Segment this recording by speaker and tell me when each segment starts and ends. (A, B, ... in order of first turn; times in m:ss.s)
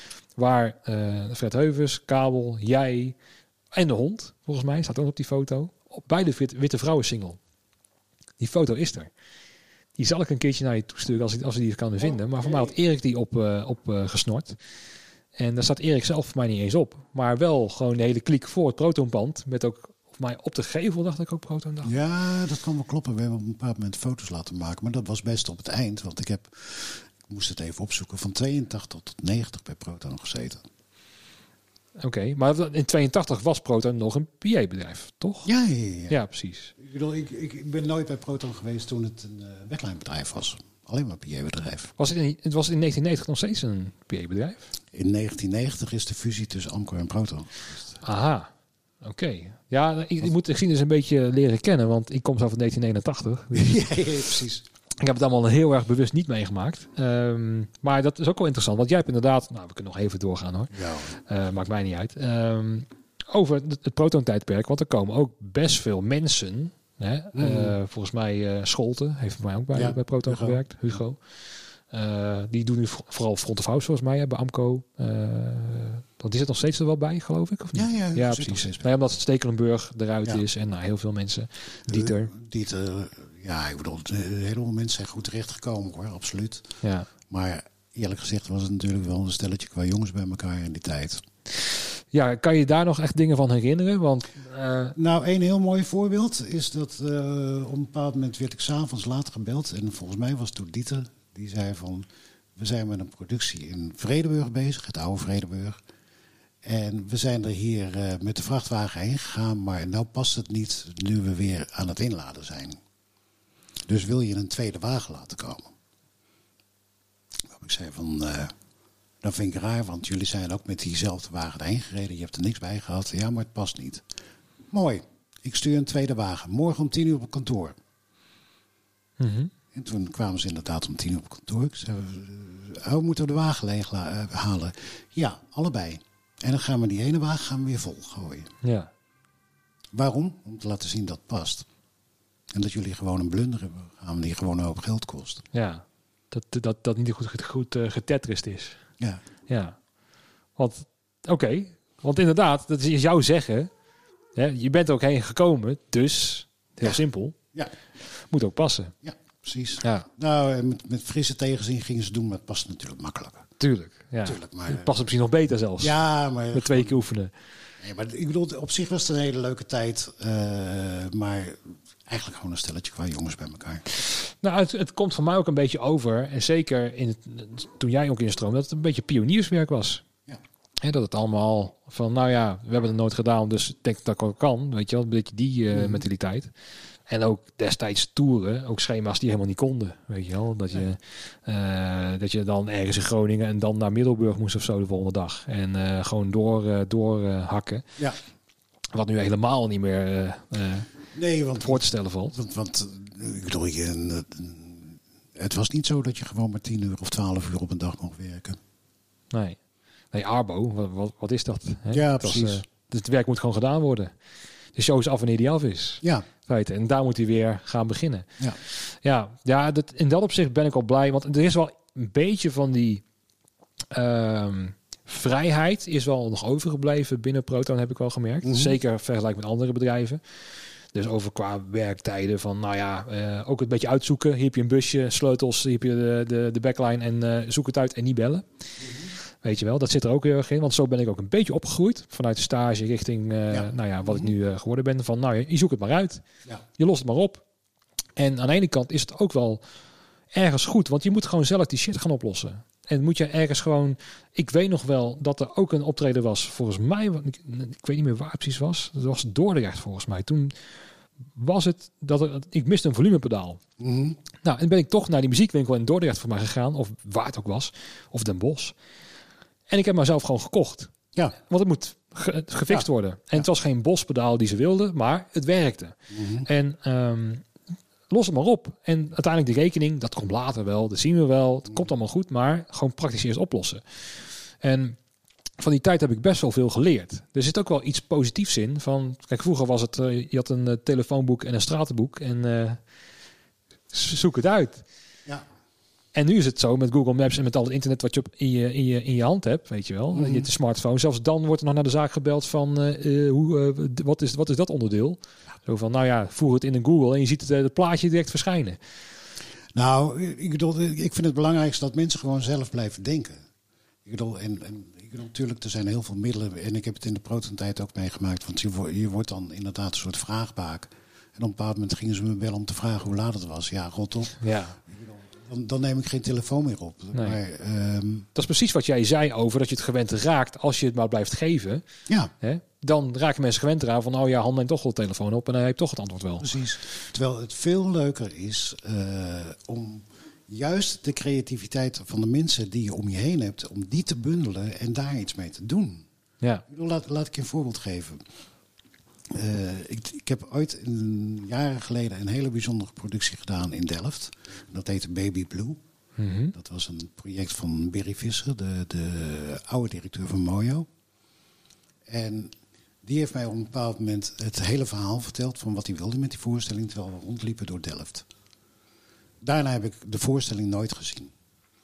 0:00.4-0:03.1 A
0:03.7-0:07.4 A
0:08.4-0:09.1 A
0:10.0-0:14.6 A
0:12.4-0:12.7 B
0:15.4-0:21.9 A
0:21.8-0:30.6 B
0:32.0-0:35.5 A
0:35.4-0:36.2 B
0:36.1-0:36.7 A
0:36.8-0:41.9 B
0:42.0-0:44.6 A
0:44.9-0:47.9 B
0:48.0-0:48.5 A
0:49.0-0:53.8 A
0:53.5-0:54.6 B
0:55.0-1:11.2 A
1:00.7-1:01.1 B
1:07.3-1:07.7 B
1:09.7-1:11.0 B
1:11.9-1:22.3 A
1:17.7-1:18.9 B
1:21.9-1:31.2 B
1:26.8-1:27.1 A
1:32.1-1:35.0 A
1:35.0-1:45.8 B
1:46.6-1:52.8 B
1:53.9-1:55.7 B
1:57.4-1:58.5 B
1:59.2-2:04.0 B
2:04.7-2:07.8 B
2:09.2-2:09.5 A
2:09.7-2:18.5 B
2:18.6-2:18.9 A
2:19.9-2:21.7 B
2:22.5-2:25.4 B
2:25.5-2:28.8 A
2:29.5-2:29.8 A
2:30.6-2:33.7 A
2:34.4-2:37.4 A
2:38.2-2:38.9 A
2:39.0-2:43.5 B
2:39.8-2:40.1 A
2:43.6-2:46.0 A
2:44.2-2:45.0 B
2:45.8-2:47.0 B
2:46.5-2:47.3 A
2:47.8-2:53.8 B
2:54.1-3:00.0 A
3:00.8-3:06.5 A
3:05.7-3:06.0 B
3:07.1-3:17.9 A
3:18.9-3:20.9 A
3:21.1-3:28.6 B
3:21.6-3:22.3 A
3:29.3-3:29.6 A
3:30.1-3:34.1 A
3:31.9-3:32.6 B
3:34.7-3:43.0 A
3:43.9-3:50.2 A
3:48.4-3:48.8 B
3:50.9-3:58.4 A
3:58.8-3:59.1 B
3:59.4-4:06.2 A
4:03.5-4:04.3 B
4:06.8-4:07.4 A
4:08.2-4:09.6 A
4:10.3-4:20.6 A
4:21.3-4:23.6 A
4:23.8-4:24.2 B
4:24.4-4:28.7 A
4:29.7-4:37.4 A
4:32.7-4:33.5 B
4:36.1-4:36.5 B
4:38.1-4:44.0 A
4:44.6-4:45.0 A
4:45.6-4:52.8 A
4:53.9-4:54.8 A
4:56.1-5:08.8 A
5:00.1-5:00.5 B
5:09.7-5:13.4 B
5:14.0-5:28.3 B
5:24.4-5:24.8 A
5:28.3-5:31.8 A
5:32.4-5:36.5 A
5:36.4-5:46.0 B
5:46.7-5:48.2 B
5:49.3-5:55.8 B
5:56.2-5:56.5 A
5:56.5-6:00.9 B
6:02.0-6:02.5 B
6:03.0-6:08.3 B
6:09.4-6:11.3 B